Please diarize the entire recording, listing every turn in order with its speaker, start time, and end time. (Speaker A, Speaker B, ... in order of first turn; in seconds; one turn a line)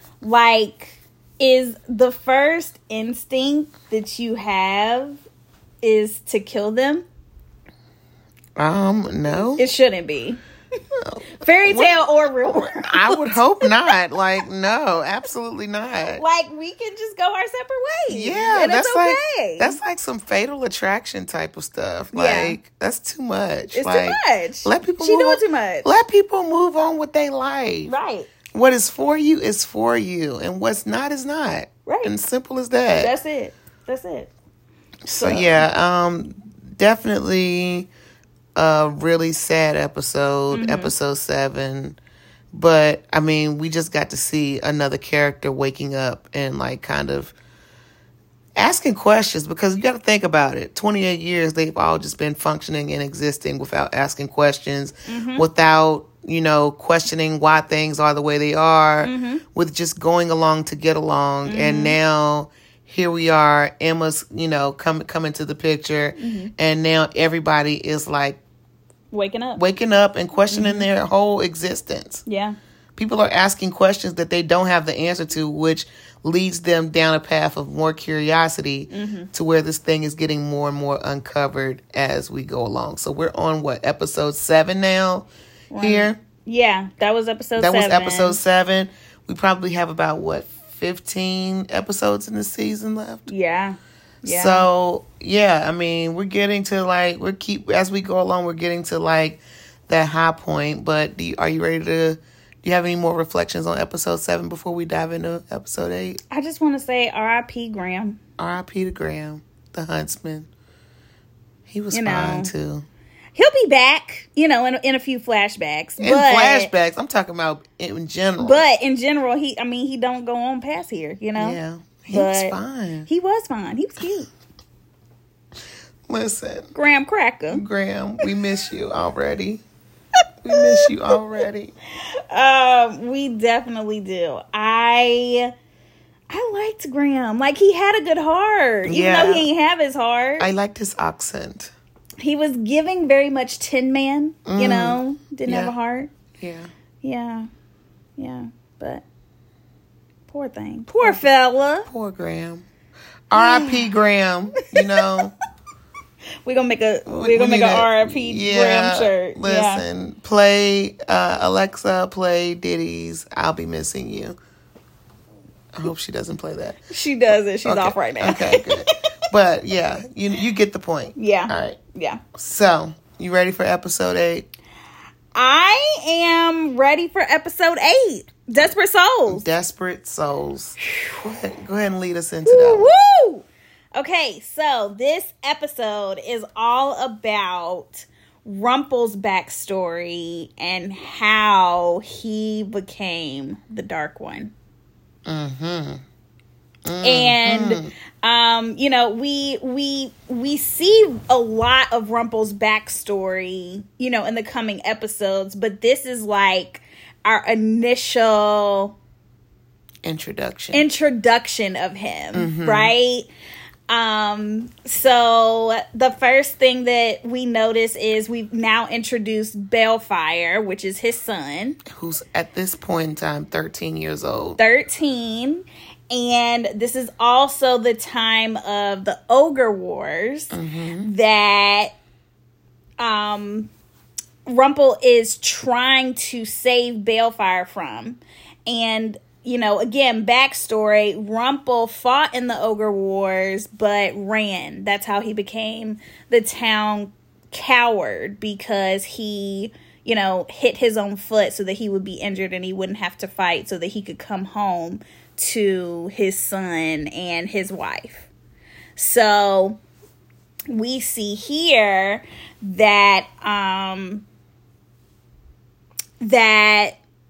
Speaker A: 0.2-5.2
Speaker A: 5.8-7.0
Speaker B: 8.6-9.6
Speaker A: 9.6-10.4
Speaker B: 11.0-12.0
Speaker A: 11.4-13.9
Speaker B: 12.5-16.2
Speaker A: 16.2-19.8
Speaker B: 18.1-27.9
Speaker A: 22.1-22.6
Speaker A: 23.7-25.9
Speaker A: 27.9-28.3
Speaker B: 28.5-33.1
Speaker A: 31.9-32.1
Speaker A: 33.0-34.3
Speaker B: 35.1-37.9
Speaker A: 35.1-35.7
Speaker B: 38.6-42.0
Speaker A: 40.5-40.9
Speaker B: 42.5-47.3
Speaker B: 48.6-68.4
Speaker A: 55.1-55.5
Speaker A: 59.0-59.4
Speaker A: 61.5-62.0
Speaker A: 66.2-66.5
Speaker A: 69.1-69.6
Speaker B: 69.6-72.2
Speaker A: 70.5-70.9
Speaker A: 72.3-72.6
Speaker B: 73.0-86.2
Speaker A: 78.9-79.3
Speaker A: 85.7-88.4
Speaker B: 87.6-93.3
Speaker A: 93.3-94.7
Speaker B: 94.2-106.2
Speaker A: 106.3-108.2
Speaker B: 108.4-110.5
Speaker B: 111.7-112.9
Speaker A: 111.9-112.5
Speaker A: 113.3-116.7
Speaker B: 116.0-118.6
Speaker A: 118.4-121.6
Speaker B: 121.4-123.1
Speaker A: 122.1-122.6
Speaker A: 123.1-124.3
Speaker B: 126.1-126.7
Speaker A: 126.8-127.6
Speaker B: 127.5-129.6
Speaker B: 130.4-131.7
Speaker A: 130.6-130.9
Speaker A: 132.3-135.5
Speaker A: 136.3-140.5
Speaker B: 138.9-139.5
Speaker B: 140.4-141.7
Speaker A: 142.2-146.1
Speaker B: 144.5-145.7
Speaker B: 146.4-146.7
Speaker A: 147.0-147.5
Speaker A: 148.2-149.0
Speaker A: 150.3-151.9
Speaker B: 151.9-152.7
Speaker B: 153.3-155.3
Speaker A: 153.3-153.9
Speaker A: 154.6-155.2
Speaker A: 156.4-159.8
Speaker B: 157.1-164.4
Speaker B: 165.7-166.8
Speaker A: 166.9-169.0
Speaker B: 167.7-171.8
Speaker A: 171.2-172.2
Speaker B: 172.3-174.5
Speaker A: 175.3-179.4
Speaker B: 179.3-182.9
Speaker A: 182.4-183.4
Speaker A: 184.0-194.5
Speaker B: 195.3-196.0
Speaker B: 196.8-197.9
Speaker A: 197.0-209.0
Speaker B: 210.0-210.8
Speaker A: 210.7-213.3
Speaker B: 212.3-212.9
Speaker A: 213.9-221.8
Speaker B: 221.9-224.6
Speaker A: 224.6-231.9
Speaker B: 230.5-231.1
Speaker A: 233.0-233.7
Speaker A: 234.5-258.3
Speaker A: 259.0-259.8
Speaker A: 260.7-264.2
Speaker A: 266.2-267.0